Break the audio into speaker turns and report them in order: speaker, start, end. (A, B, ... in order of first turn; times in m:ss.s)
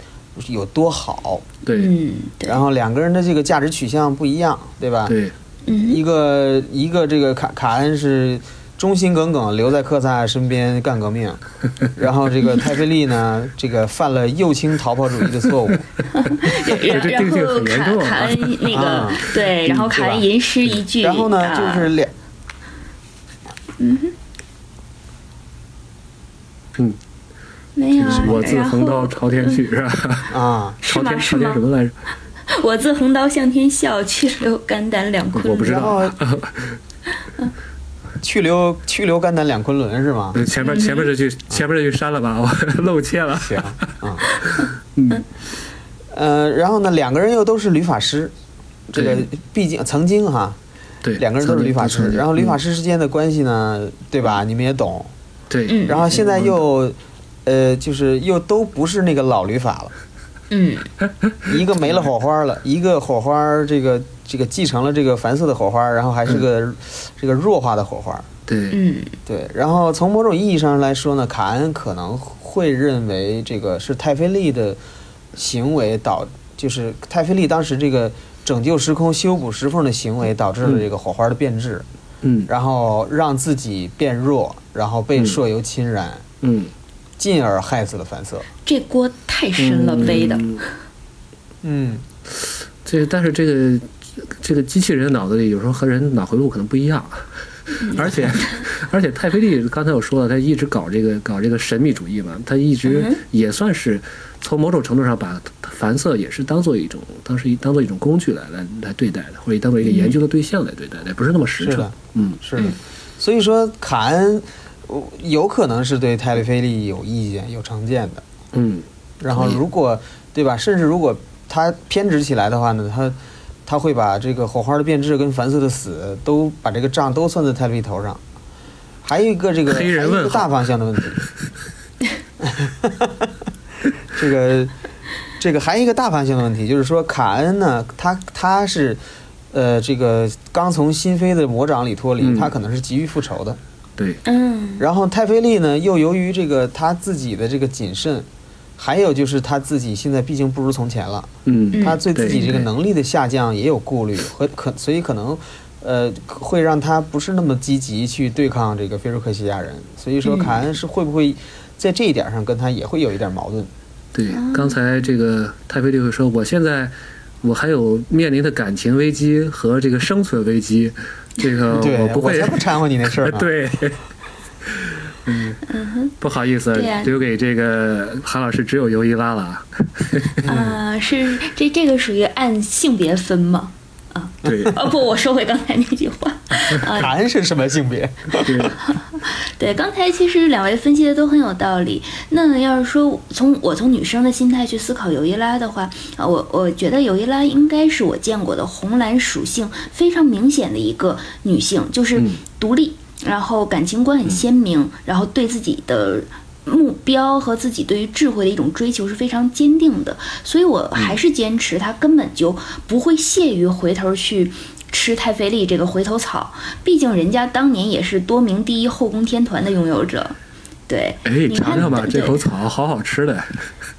0:00.4-0:01.4 A
0:01.6-0:01.9 B
0:01.7-0:02.6 C
0:02.4-0:05.2 A
0:05.1-0:05.3 B
0:05.6-0:06.0 C
0:05.8-0:11.4 A
0:11.9-0:15.9 A
0:16.1-0:21.9 C
0:16.5-0:18.9 B
0:18.7-0:20.2 A
0:21.0-0:22.1 A
0:23.8-0:24.1 C
0:27.8-0:29.6 C
0:28.0-0:32.0 B
0:30.3-0:30.8 A
0:30.8-0:31.6 C
0:32.5-0:35.9 C
0:35.4-0:36.8 B
0:35.6-0:36.2 A
0:38.2-0:40.4 A
0:40.3-0:44.0 B
0:40.6-0:41.1 C
0:43.4-0:44.3 A
0:44.4-0:45.2 C
0:44.5-0:45.2 B
0:46.1-0:48.3 A
0:48.9-0:50.6 A
0:48.9-0:49.3 B
0:51.0-0:52.6 B
0:51.2-0:55.1 A
0:55.5-0:56.6 B
0:55.7-0:56.1 C
0:55.9-0:59.9 A
1:00.5-1:00.9 C
1:01.4-1:08.3 A
1:08.5-1:08.8 B
1:08.7-1:09.1 C
1:09.3-1:14.8 A
1:15.4-1:21.9 A
1:22.2-1:22.5 B
1:22.5-1:26.2 A
1:26.4-1:26.7 B
1:27.2-1:28.5 A
1:28.6-1:30.6 C
1:29.6-1:30.6 B
1:31.6-1:32.0 A
1:32.4-1:52.4 B
1:37.8-1:38.6 C
1:42.9-1:43.2 C
1:49.8-1:50.2 C
1:51.6-1:58.2 A
1:58.5-1:59.6 B
1:59.2-2:08.2 A
2:09.0-2:11.2 A
2:09.7-2:10.5 B
2:12.4-2:13.3 A
2:14.1-2:14.7 A
2:15.4-2:19.0 A
2:19.5-2:23.6 A
2:22.2-2:22.5 B
2:24.2-2:24.8 C
2:24.8-2:43.7 A
2:31.4-2:32.6 B
2:31.7-2:32.4 C
2:40.2-2:40.6 C
2:44.1-2:54.0 B
2:44.3-2:44.8 C
2:51.7-2:53.5 A
2:54.6-2:55.6 B
2:55.7-2:56.1 C
2:56.2-3:00.5 B
2:56.7-2:57.1 C
3:00.4-3:00.8 A
3:00.4-3:07.1 C
3:04.4-3:04.9 B
3:06.9-3:08.7 A
3:08.4-3:08.8 B
3:08.6-3:40.4 C
3:40.9-3:42.4 C
3:41.2-3:43.6 B